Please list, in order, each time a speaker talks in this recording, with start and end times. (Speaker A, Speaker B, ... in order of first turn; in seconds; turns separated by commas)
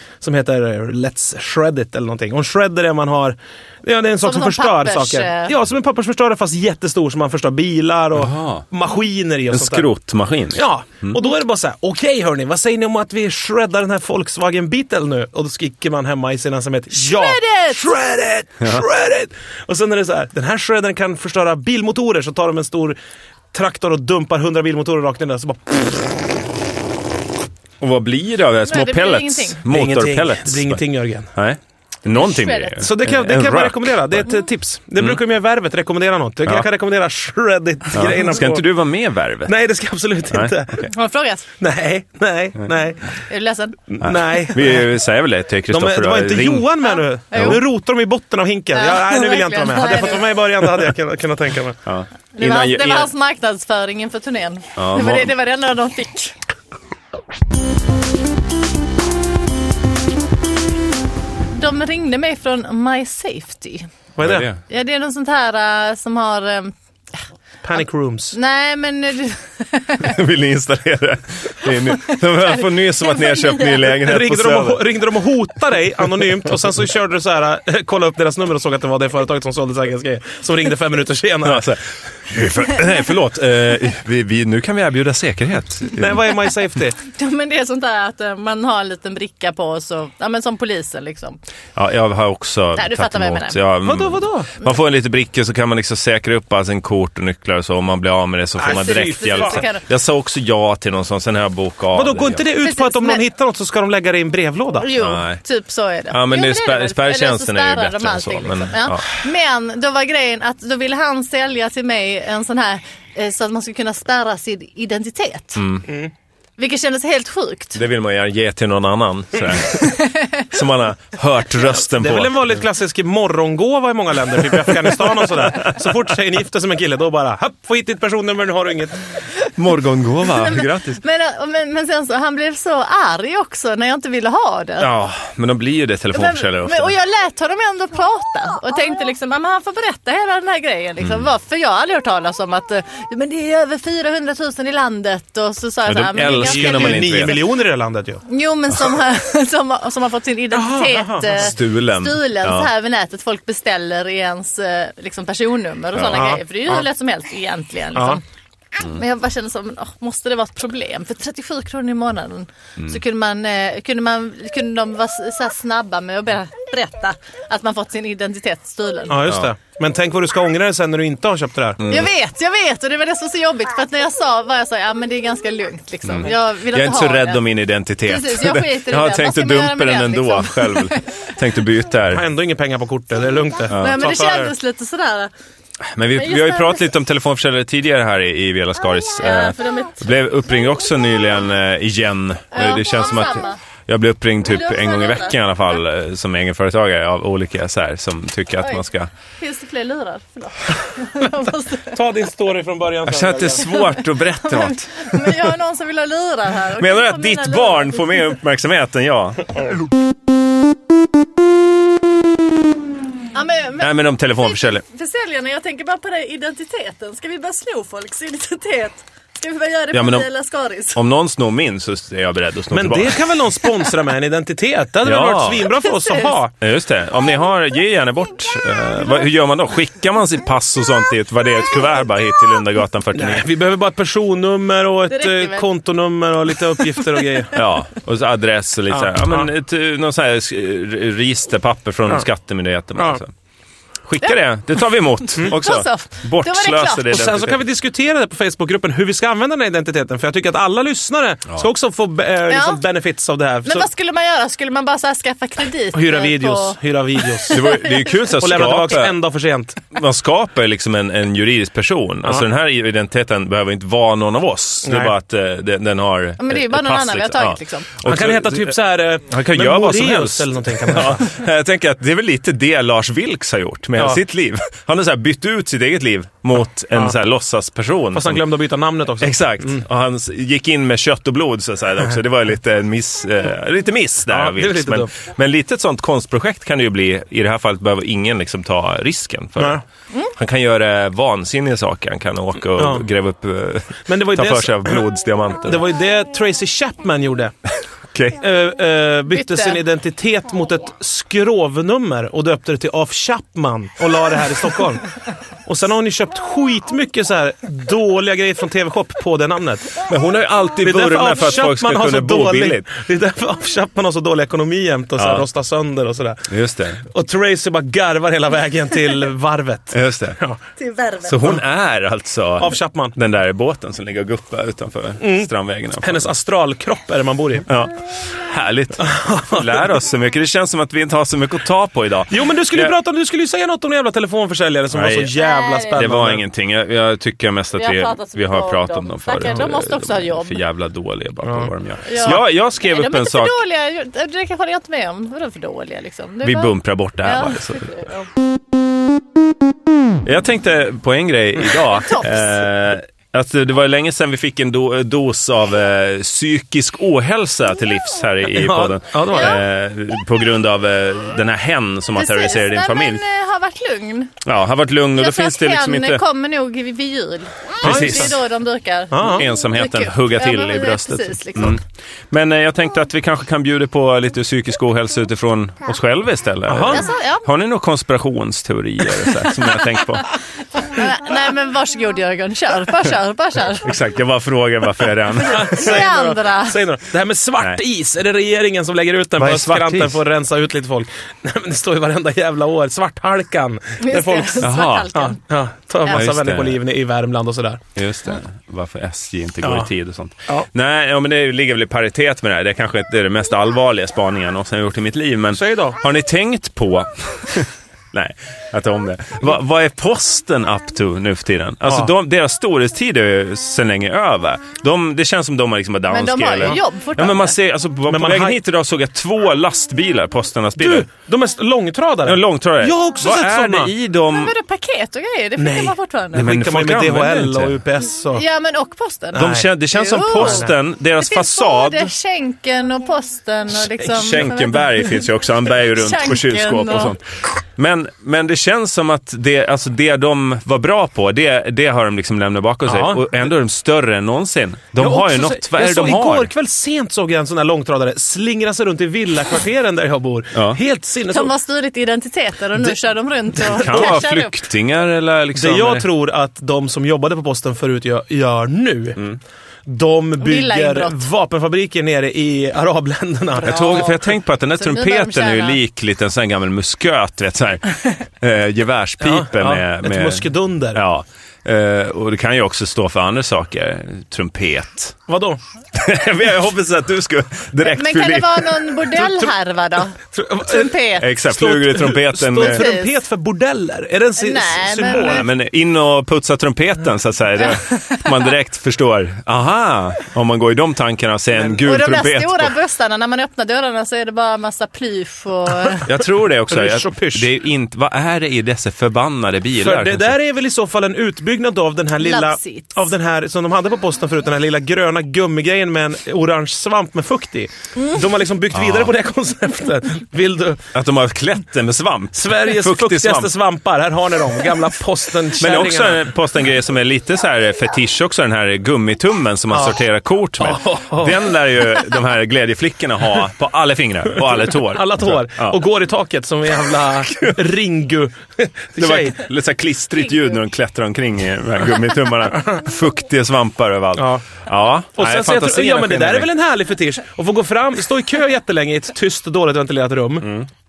Speaker A: 0.2-9.9, Speaker B: 4.2-5.5, Speaker C: 8.1-8.6, Speaker C: 9.5-11.2, Speaker A: 10.5-23.0, Speaker B: 16.9-17.9, Speaker A: 23.5-26.1, Speaker C: 27.8-30.8, Speaker B: 28.7-29.6, Speaker A: 29.7-31.3, Speaker C: 31.3-34.2, Speaker B: 32.2-32.8, Speaker A: 32.8-38.6, Speaker C: 37.9-39.5, Speaker A: 39.5-40.9, Speaker C: 40.3-40.9, Speaker B: 40.9-41.5, Speaker A: 41.6-43.1, Speaker B: 43.3-43.8, Speaker A: 43.9-44.9, Speaker C: 44.0-46.8, Speaker A: 45.7-51.8, Speaker C: 47.3-47.6, Speaker B: 47.3-47.6, Speaker B: 48.7-50.4, Speaker C: 51.9-53.1, Speaker B: 52.3-56.3, Speaker C: 54.8-55.3, Speaker B: 61.5-63.9, Speaker A: 64.2-64.5, Speaker C: 64.2-64.6, Speaker B: 64.7-66.7, Speaker A: 67.6-68.3, Speaker B: 68.3-70.1, Speaker C: 70.0-74.8, Speaker B: 73.0-73.9, Speaker A: 74.0-81.7, Speaker C: 81.4-86.2, Speaker A: 85.9-87.0, Speaker B: 87.0-91.4, Speaker C: 91.7-102.4, Speaker B: 92.8-93.6, Speaker A: 93.8-94.5, Speaker A: 98.6-99.7, Speaker B: 98.7-99.8, Speaker A: 101.9-104.9, Speaker B: 102.6-103.2, Speaker B: 104.8-115.6, Speaker C: 105.0-105.4, Speaker C: 106.1-109.0, Speaker C: 115.6-115.8, Speaker A: 115.8-116.1, Speaker B: 116.6-117.8, Speaker C: 117.8-122.4, Speaker B: 119.7-120.4, Speaker A: 121.9-129.0, Speaker C: 124.7-125.1, Speaker C: 129.6-131.0, Speaker B: 130.3-134.9, Speaker C: 134.8-136.9, Speaker B: 136.1-147.4, Speaker C: 141.0-141.3, Speaker C: 145.8-147.4, Speaker A: 146.4-148.2, Speaker B: 148.3-158.2, Speaker A: 150.5-151.4, Speaker C: 151.3-152.7, Speaker C: 155.9-156.3, Speaker A: 156.1-156.8, Speaker A: 157.9-158.2, Speaker B: 158.8-169.2, Speaker A: 169.1-171.8, Speaker C: 169.2-169.5, Speaker C: 171.8-172.1, Speaker B: 171.9-177.4, Speaker C: 176.1-182.2, Speaker B: 178.0-181.2, Speaker A: 182.1-184.5, Speaker C: 183.7-184.0, Speaker B: 183.7-185.3, Speaker C: 185.8-199.1, Speaker B: 186.2-186.8, Speaker B: 189.2-190.1, Speaker B: 192.5-193.6, Speaker B: 194.5-195.4, Speaker B: 199.4-201.9, Speaker A: 201.9-203.7, Speaker C: 203.0-205.3, Speaker B: 203.6-208.3, Speaker C: 206.8-209.5, Speaker B: 213.3-221.0, Speaker C: 213.8-214.8, Speaker C: 219.9-220.3, Speaker C: 220.9-223.2, Speaker A: 222.7-226.5, Speaker C: 225.0-225.7, Speaker B: 225.7-226.4, Speaker C: 226.6-233.5, Speaker A: 233.1-237.6, Speaker B: 235.1-235.7, Speaker B: 236.9-237.3, Speaker C: 237.5-243.3, Speaker A: 238.9-239.5, Speaker C: 244.1-247.6, Speaker B: 245.3-247.2, Speaker A: 247.1-253.9, Speaker B: 252.5-252.8, Speaker B: 253.6-258.3, Speaker A: 255.9-257.8, Speaker C: 257.5-259.1, Speaker A: 258.4-259.8, Speaker C: 259.9-268.8, Speaker A: 264.9-265.1, Speaker B: 266.4-267.9, Speaker A: 268.0-271.3, Speaker C: 269.3-278.4, Speaker A: 273.9-274.2, Speaker A: 278.1-279.8, Speaker C: 279.2-289.8, Speaker A: 284.3-285.1, Speaker A: 289.6-289.8, Speaker C: 290.4-295.8, Speaker A: 292.8-293.1, Speaker A: 294.1-295.0, Speaker A: 295.6-297.5, Speaker C: 298.1-298.4, Speaker A: 298.4-305.1, Speaker B: 299.3-299.8, Speaker A: 305.6-310.0, Speaker C: 310.0-312.9, Speaker A: 310.8-316.5, Speaker C: 315.2-315.4, Speaker C: 316.5-317.0, Speaker A: 317.0-320.6, Speaker C: 319.9-320.4, Speaker B: 320.8-321.4, Speaker C: 321.2-326.3, Speaker A: 322.6-323.1, Speaker A: 325.2-325.5, Speaker A: 326.0-327.7, Speaker C: 327.7-332.9, Speaker A: 329.0-329.9, Speaker A: 332.3-336.4, Speaker C: 334.9-335.3, Speaker B: 335.4-336.0, Speaker C: 335.9-343.5, Speaker B: 337.8-340.6, Speaker A: 341.4-341.7, Speaker B: 342.1-348.3, Speaker C: 346.4-348.0, Speaker C: 350.2-363.2, Speaker B: 351.8-352.5, Speaker A: 358.5-359.6, Speaker B: 359.3-359.6, Speaker B: 362.1-364.4, Speaker C: 364.4-366.2, Speaker B: 365.1-371.8, Speaker A: 367.8-368.4, Speaker C: 367.8-368.4, Speaker A: 369.1-369.4, Speaker C: 369.2-380.3, Speaker A: 376.7-377.1, Speaker B: 376.9-377.4, Speaker B: 380.8-383.9, Speaker C: 383.8-386.0, Speaker B: 385.4-386.8, Speaker A: 385.4-397.8, Speaker C: 389.4-390.2, Speaker B: 394.0-395.4, Speaker C: 394.6-395.1, Speaker C: 396.1-396.8, Speaker C: 397.9-421.1, Speaker A: 399.6-399.9, Speaker A: 405.5-406.0, Speaker A: 411.9-412.1, Speaker B: 416.1-417.5, Speaker A: 418.1-418.6, Speaker A: 420.8-423.9, Speaker C: 422.2-424.5, Speaker B: 424.3-426.5, Speaker A: 425.6-428.4, Speaker C: 426.3-427.8, Speaker B: 428.3-435.3, Speaker A: 429.3-429.7, Speaker C: 429.3-432.1, Speaker A: 430.3-430.7, Speaker C: 434.0-446.5, Speaker B: 435.8-437.1, Speaker A: 442.9-443.3, Speaker A: 445.0-451.5, Speaker B: 451.3-454.5, Speaker A: 453.6-454.1, Speaker C: 453.7-456.1, Speaker A: 455.5-459.3, Speaker A: 459.9-464.0, Speaker B: 460.4-461.3, Speaker C: 463.6-475.2, Speaker B: 463.6-465.8, Speaker A: 469.2-471.0, Speaker A: 475.3-475.6, Speaker C: 475.9-478.9, Speaker B: 477.8-481.3, Speaker A: 479.1-479.5, Speaker A: 480.2-485.5, Speaker C: 481.2-482.8, Speaker B: 482.6-483.1, Speaker B: 484.4-485.4, Speaker C: 485.1-492.8, Speaker B: 487.6-488.2, Speaker A: 491.6-491.8, Speaker B: 491.8-496.1, Speaker C: 496.0-500.3, Speaker A: 496.7-497.5, Speaker A: 499.8-510.9, Speaker B: 502.2-503.0, Speaker C: 508.7-509.1, Speaker C: 510.9-513.5, Speaker A: 512.3-516.2, Speaker C: 515.5-525.8, Speaker A: 520.6-521.5, Speaker A: 524.4-529.4, Speaker C: 527.0-527.6, Speaker C: 529.0-536.5, Speaker A: 534.1-534.5, Speaker A: 535.1-540.6, Speaker C: 540.4-540.7